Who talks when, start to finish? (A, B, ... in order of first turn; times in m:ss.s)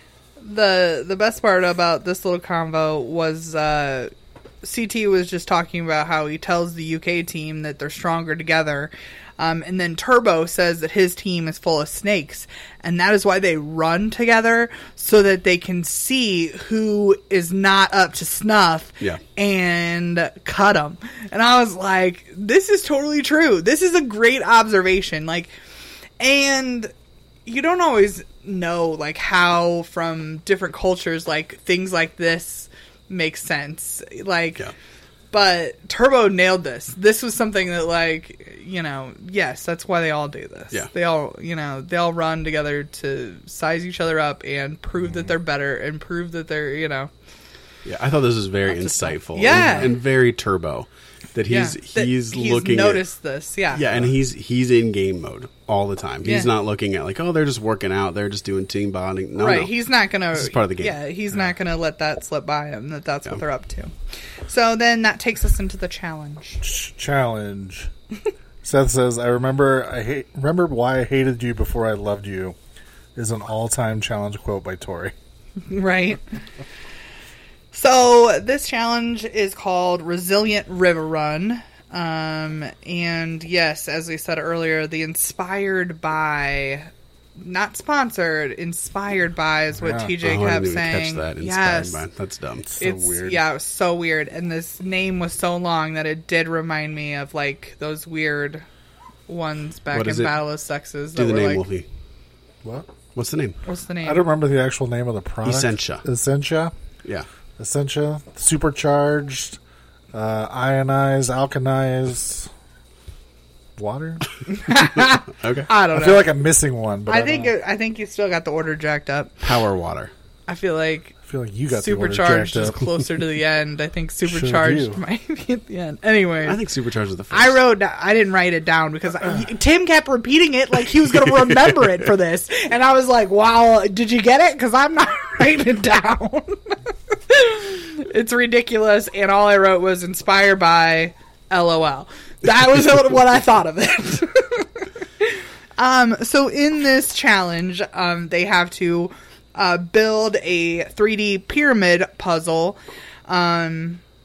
0:00.4-0:25.5 A
0:26.2-0:26.9 A
0:27.5-0:34.6 A
0:35.3-0:47.1 A
0:47.8-0:53.0 B
0:48.7-0:49.9 A
0:51.5-0:53.8 A
0:53.7-0:59.8 B
0:56.2-0:56.5 A
0:59.4-1:03.9 A
1:00.3-1:01.0 B
1:04.5-1:06.6 A
1:06.6-1:07.9 C
1:08.6-1:12.6 C
1:13.2-1:15.1 C
1:15.7-1:16.2 A
1:17.7-1:32.0 A
1:29.8-1:30.1 C
1:30.2-1:32.7 B
1:32.7-1:33.4 C
1:32.8-1:38.6 A
1:39.3-1:41.6 A
1:39.9-1:40.4 B
1:41.2-1:41.9 B
1:42.6-1:42.9 C
1:43.2-1:43.6 B
1:43.6-1:44.2 A
1:44.0-1:46.7 C
1:45.4-1:46.0 B
1:47.6-1:49.6 C
1:50.1-1:52.5 C
1:53.8-1:54.2 C
1:54.5-1:56.3 A
1:55.4-1:55.7 B
1:55.9-1:57.5 C
1:57.1-1:59.4 A
1:59.4-2:00.1 B
2:00.5-2:01.2 A
2:01.2-2:02.8 C
2:01.7-2:06.6 A
2:04.2-2:05.0 C
2:06.4-2:07.6 B
2:07.3-2:34.0 A
2:11.2-2:11.8 B